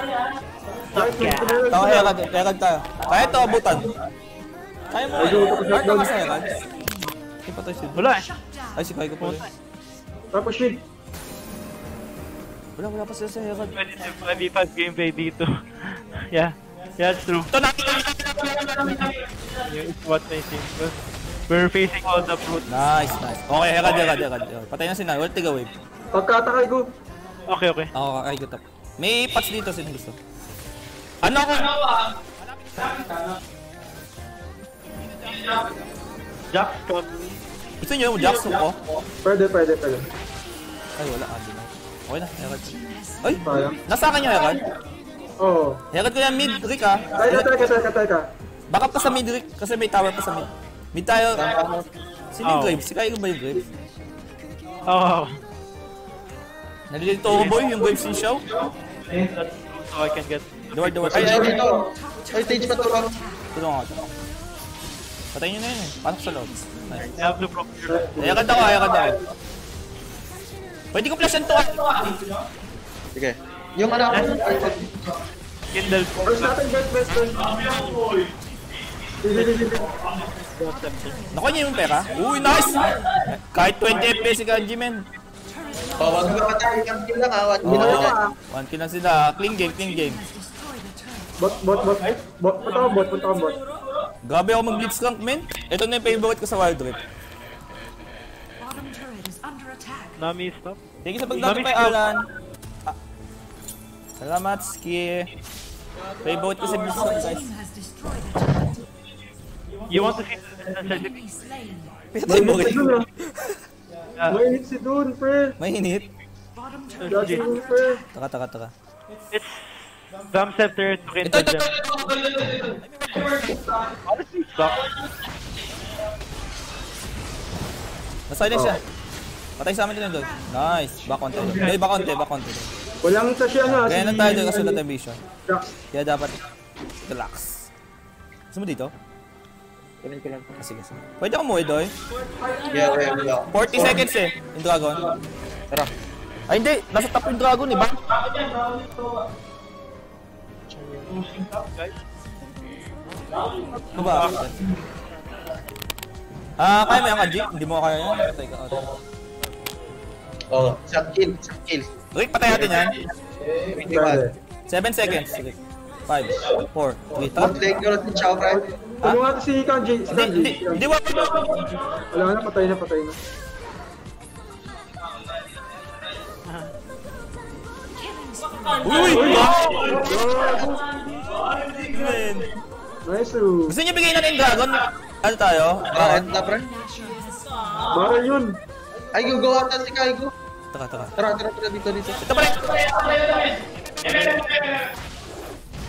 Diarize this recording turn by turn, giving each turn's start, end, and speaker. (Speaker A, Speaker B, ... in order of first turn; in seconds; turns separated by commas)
Speaker A: 0.9-2.1, Speaker B: 1.1-3.9, Speaker B: 4.9-6.5, Speaker A: 5.2-6.1, Speaker B: 7.4-8.2, Speaker C: 7.9-8.3, Speaker B: 8.7-9.4, Speaker C: 9.2-9.5, Speaker A: 10.3-10.8, Speaker B: 12.8-13.8, Speaker C: 13.7-17.5, Speaker B: 17.5-19.1, Speaker C: 19.7-21.0, Speaker C: 21.5-22.9, Speaker B: 22.7-25.7, Speaker A: 26.1-26.9, Speaker C: 27.5-27.9, Speaker B: 27.9-30.2, Speaker B: 31.2-31.7, Speaker C: 36.5-37.1, Speaker B: 37.8-38.8, Speaker A: 39.2-40.0, Speaker B: 41.0-44.6, Speaker A: 43.4-43.8, Speaker A: 45.4-45.8, Speaker B: 45.9-47.7, Speaker A: 47.1-48.3, Speaker B: 48.7-51.5, Speaker D: 51.3-51.8, Speaker B: 52.3-53.6, Speaker C: 52.4-52.8, Speaker C: 54.9-55.4, Speaker B: 56.9-58.4, Speaker C: 59.0-61.6, Speaker B: 60.7-61.6, Speaker D: 61.1-63.2, Speaker B: 63.5-64.1, Speaker B: 65.3-67.1, Speaker C: 67.2-68.4, Speaker A: 67.9-68.6, Speaker B: 68.2-69.2, Speaker B: 70.9-72.0, Speaker D: 73.1-74.9, Speaker C: 75.7-76.6, Speaker A: 76.2-78.0, Speaker A: 79.2-79.9, Speaker C: 80.4-81.3, Speaker B: 81.3-85.0, Speaker D: 86.0-88.2, Speaker A: 87.6-88.3, Speaker B: 87.6-90.2, Speaker A: 91.4-93.6, Speaker B: 94.2-97.0, Speaker C: 100.2-100.8, Speaker B: 101.0-102.3, Speaker C: 101.4-102.0, Speaker B: 104.2-105.3, Speaker B: 106.2-107.5, Speaker C: 109.9-111.2, Speaker B: 112.1-113.6, Speaker A: 112.3-113.0, Speaker A: 114.3-115.6, Speaker B: 115.6-116.1, Speaker C: 117.0-117.4, Speaker A: 117.1-118.0, Speaker B: 118.1-118.7, Speaker C: 119.3-121.7, Speaker B: 121.2-123.3, Speaker C: 124.1-124.9, Speaker B: 128.3-128.8, Speaker B: 129.6-132.7, Speaker A: 133.0-134.8, Speaker B: 133.7-135.2, Speaker A: 135.5-135.8, Speaker B: 135.9-136.3, Speaker B: 137.0-137.7, Speaker B: 138.5-138.9, Speaker D: 140.0-140.5, Speaker B: 140.6-141.9, Speaker D: 142.7-144.0, Speaker B: 143.5-145.1, Speaker B: 146.5-148.0, Speaker D: 150.7-151.0, Speaker C: 151.1-151.9, Speaker B: 153.9-154.6, Speaker B: 156.6-158.9, Speaker D: 160.5-161.9, Speaker B: 162.1-162.9, Speaker D: 163.7-164.2, Speaker A: 163.9-164.3, Speaker B: 164.7-167.6, Speaker D: 167.3-168.6, Speaker A: 169.0-170.8, Speaker B: 170.1-171.5, Speaker A: 172.1-173.2, Speaker C: 176.4-176.7, Speaker B: 178.8-179.9, Speaker A: 179.1-180.8, Speaker D: 179.9-180.8, Speaker B: 181.5-182.5, Speaker A: 183.1-183.8, Speaker B: 183.7-186.4, Speaker D: 185.9-186.7, Speaker A: 187.9-188.6, Speaker D: 189.1-190.3, Speaker B: 190.7-191.1, Speaker D: 191.2-192.2, Speaker B: 192.2-193.1, Speaker C: 194.0-194.7